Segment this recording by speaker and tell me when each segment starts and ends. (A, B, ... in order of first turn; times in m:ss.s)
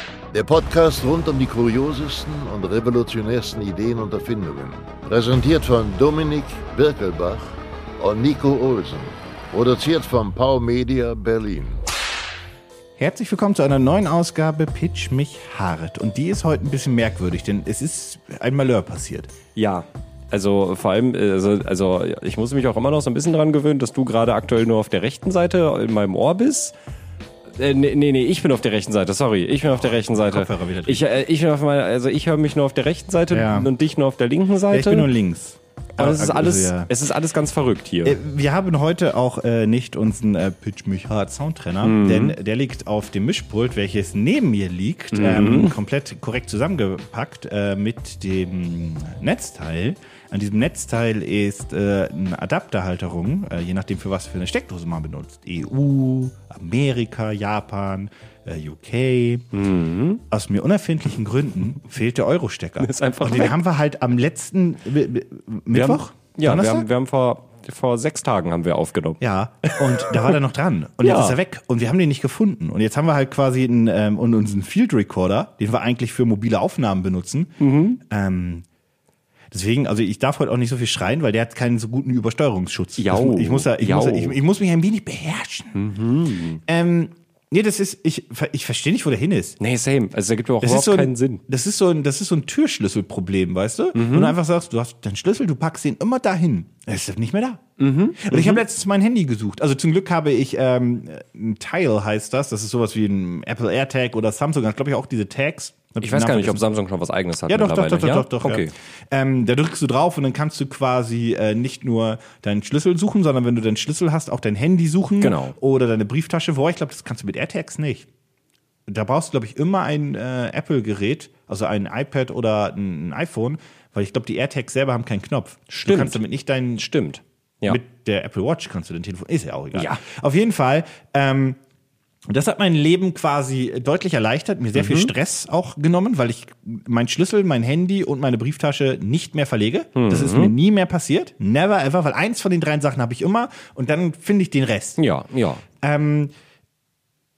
0:00.3-0:11.8 A
0:13.0-0:19.3 B
0:19.6-0:26.7 C
0:27.6-0:35.1 C
0:29.7-0:31.0 B
0:33.3-0:33.7 B
0:34.7-0:36.9 B
0:36.0-0:38.2 C
0:38.0-0:59.5 B
0:41.8-0:42.4 C
0:45.1-0:45.8 C
0:59.5-1:00.2 C
1:00.3-1:06.9 B
1:02.8-1:03.6 C
1:05.7-1:10.3 C
1:09.2-1:18.6 B
1:11.0-1:11.4 C
1:17.6-1:18.0 C
1:19.5-1:25.8 B
1:23.0-1:24.4 C
1:25.7-1:26.6 C
1:26.6-1:29.6 B
1:29.6-1:31.4 C
1:30.6-1:37.6 B
1:33.9-1:34.4 C
1:37.8-1:38.6 C
1:38.2-1:46.6 B
1:46.0-1:48.7 C
1:47.5-1:58.1 B
1:55.2-1:55.5 C
1:58.9-2:06.9 B
2:05.7-2:06.2 C
2:06.8-2:07.8 C
2:07.7-2:11.6 B
2:09.7-2:10.0 C
2:12.3-2:25.0 B
2:14.7-2:15.1 C
2:19.9-2:20.5 C
2:25.0-2:25.6 C
2:25.8-2:26.3 B